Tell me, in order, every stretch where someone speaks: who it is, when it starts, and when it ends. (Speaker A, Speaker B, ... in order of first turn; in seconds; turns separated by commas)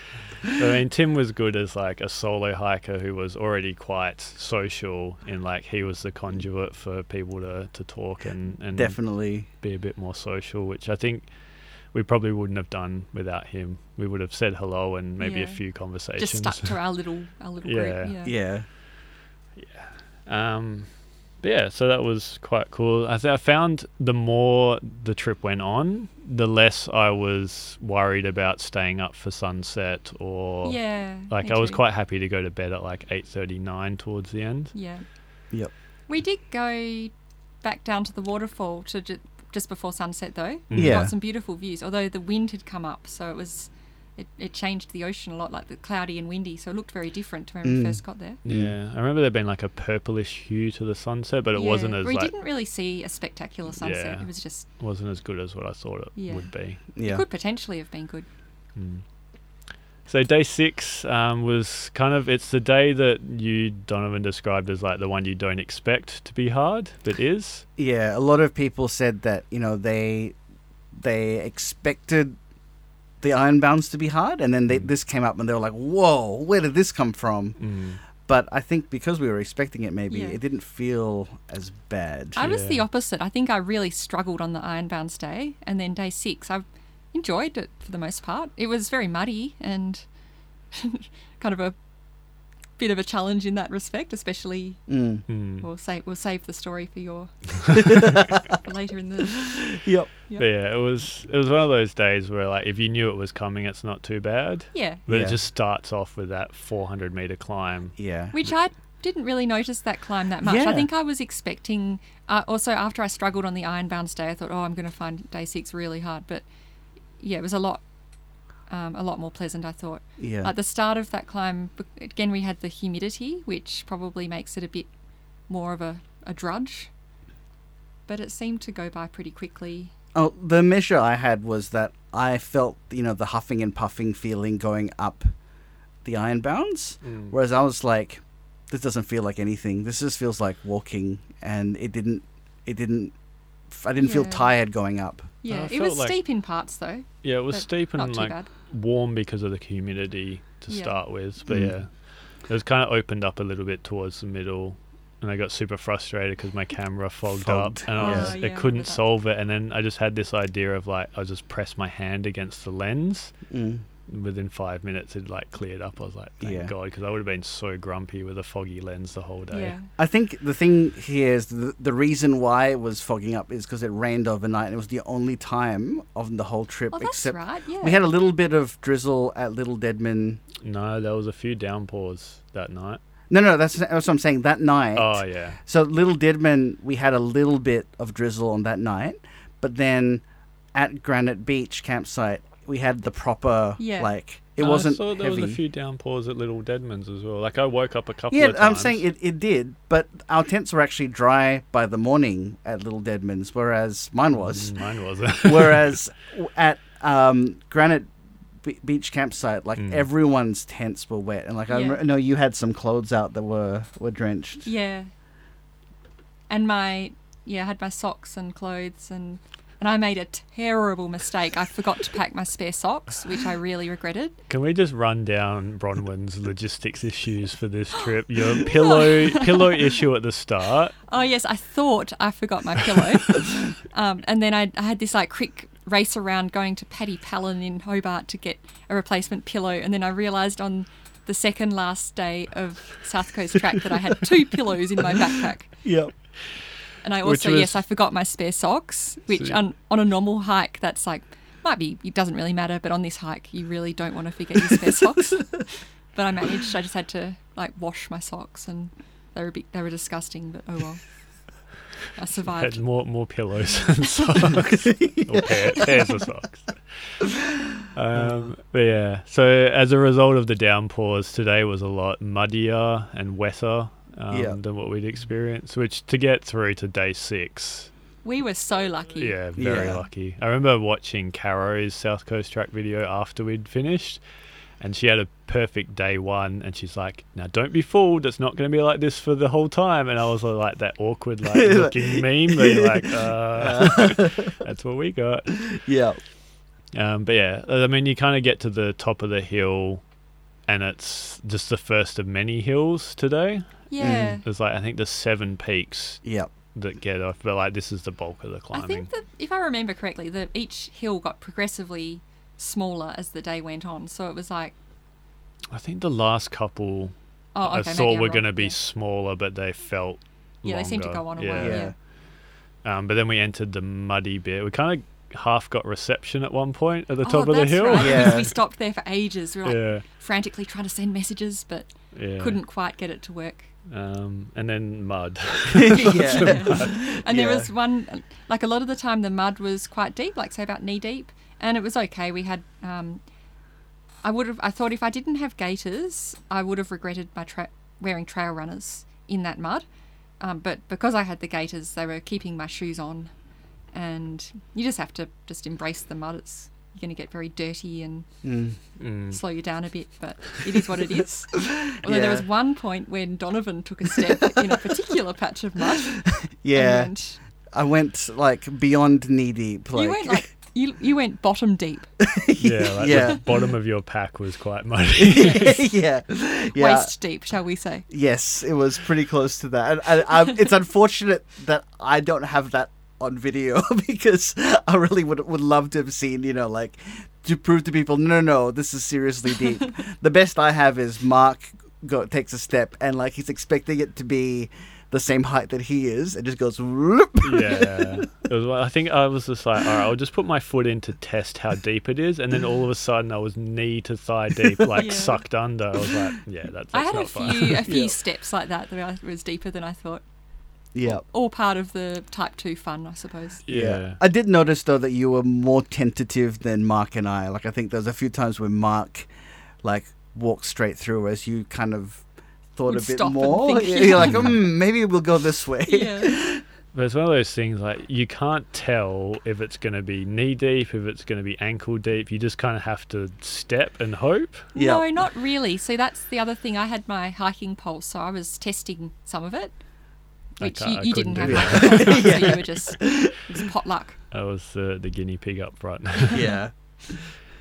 Speaker A: 0.5-11.3, Speaker B: 8.7-9.5, Speaker A: 11.9-16.8, Speaker C: 15.2-15.6, Speaker C: 16.2-18.3, Speaker A: 17.6-18.1, Speaker B: 18.2-18.6, Speaker A: 19.6-20.9, Speaker A: 21.4-34.7, Speaker C: 30.6-31.8, Speaker C: 34.7-35.0, Speaker C: 36.1-37.1, Speaker C: 37.6-48.4, Speaker A: 40.7-41.1, Speaker B: 40.7-41.1, Speaker B: 47.6-48.7, Speaker A: 48.4-52.3, Speaker C: 51.5-54.7, Speaker A: 53.7-54.3, Speaker A: 54.8-56.8, Speaker C: 56.1-56.5, Speaker B: 56.9-57.2, Speaker C: 57.0-58.3, Speaker A: 58.8-59.0, Speaker A: 60.0-67.6, Speaker B: 67.8-70.3, Speaker B: 70.9-72.3, Speaker B: 73.2-77.6, Speaker A: 77.6-78.0, Speaker B: 78.2-82.4, Speaker C: 80.1-80.4, Speaker C: 82.3-90.0, Speaker A: 82.4-82.8, Speaker C: 90.7-91.7, Speaker C: 92.8-94.8, Speaker B: 94.9-95.2, Speaker A: 95.3-95.7, Speaker C: 95.6-99.6, Speaker B: 97.8-98.5, Speaker B: 99.4-100.1, Speaker A: 100.3-108.0, Speaker C: 104.7-105.0, Speaker B: 105.1-105.4, Speaker B: 108.0-108.3, Speaker C: 108.3-116.4, Speaker B: 110.4-110.9, Speaker C: 117.2-117.8, Speaker C: 118.7-124.9, Speaker B: 120.2-120.5, Speaker C: 125.5-126.9, Speaker C: 128.1-129.9, Speaker B: 130.1-135.3, Speaker B: 136.0-143.1, Speaker A: 137.0-137.3, Speaker B: 143.7-145.3, Speaker C: 144.0-144.5, Speaker C: 145.4-148.5, Speaker A: 145.5-146.2, Speaker A: 147.2-151.9, Speaker C: 150.7-151.0, Speaker B: 151.5-151.7, Speaker A: 152.5-163.3, Speaker B: 157.3-158.4, Speaker C: 157.9-159.0, Speaker B: 163.5-163.8, Speaker A: 164.1-169.8, Speaker B: 166.4-166.7, Speaker C: 169.5-169.9, Speaker B: 170.0-180.4, Speaker C: 176.9-178.0, Speaker A: 180.6-183.0, Speaker B: 183.3-195.6, Speaker A: 184.9-185.6, Speaker C: 193.8-194.1, Speaker A: 194.6-199.0, Speaker B: 198.3-204.7, Speaker A: 204.3-206.0, Speaker B: 205.4-208.1, Speaker B: 208.6-214.7, Speaker A: 209.8-210.1, Speaker C: 211.7-212.0, Speaker C: 214.6-215.1, Speaker C: 216.5-224.4, Speaker A: 224.5-230.9, Speaker C: 228.6-229.8, Speaker C: 231.1-245.7, Speaker B: 245.8-246.1, Speaker C: 247.0-261.0, Speaker A: 247.2-247.8, Speaker C: 262.1-262.8, Speaker A: 262.5-267.2, Speaker B: 264.4-266.2, Speaker B: 267.2-268.4, Speaker A: 267.9-277.9, Speaker B: 274.3-274.6, Speaker C: 278.2-279.3, Speaker A: 279.2-284.2, Speaker B: 279.6-280.0, Speaker A: 284.8-295.6, Speaker B: 291.4-294.6, Speaker B: 295.6-296.2, Speaker A: 296.9-300.0, Speaker A: 300.7-306.2, Speaker C: 303.9-304.4, Speaker B: 304.0-304.4, Speaker B: 306.2-306.5, Speaker A: 306.7-309.1, Speaker C: 308.7-314.7, Speaker A: 315.7-321.8, Speaker C: 317.5-318.7, Speaker C: 320.6-321.9, Speaker B: 321.6-321.9, Speaker A: 322.8-328.5, Speaker C: 327.2-333.7, Speaker B: 328.0-328.5, Speaker A: 329.6-330.0, Speaker A: 332.1-332.6, Speaker A: 333.9-337.0, Speaker B: 335.7-337.7, Speaker C: 336.0-343.2, Speaker C: 344.2-349.8, Speaker C: 350.4-353.3, Speaker C: 353.9-358.3, Speaker B: 358.4-358.8, Speaker A: 359.0-359.4, Speaker C: 359.3-367.4, Speaker B: 361.7-362.4, Speaker B: 366.2-367.1, Speaker B: 367.7-370.5, Speaker C: 369.9-372.1, Speaker B: 372.2-373.4, Speaker A: 372.6-375.8, Speaker B: 375.1-377.1, Speaker C: 375.4-375.6, Speaker C: 376.7-378.1, Speaker B: 378.1-398.2, Speaker A: 397.4-407.9, Speaker C: 404.9-405.4, Speaker C: 406.9-410.2, Speaker B: 407.9-408.1, Speaker B: 410.9-411.2, Speaker C: 411.1-413.6, Speaker A: 413.6-414.2, Speaker B: 413.7-419.3, Speaker B: 419.8-422.2, Speaker B: 422.8-426.6, Speaker C: 422.9-424.5, Speaker A: 424.2-424.5, Speaker C: 425.9-426.4, Speaker A: 426.9-434.7, Speaker B: 434.7-435.1, Speaker C: 434.7-439.7, Speaker A: 440.6-442.6, Speaker C: 440.6-444.2, Speaker B: 441.4-443.4, Speaker A: 444.3-446.5, Speaker B: 446.3-447.2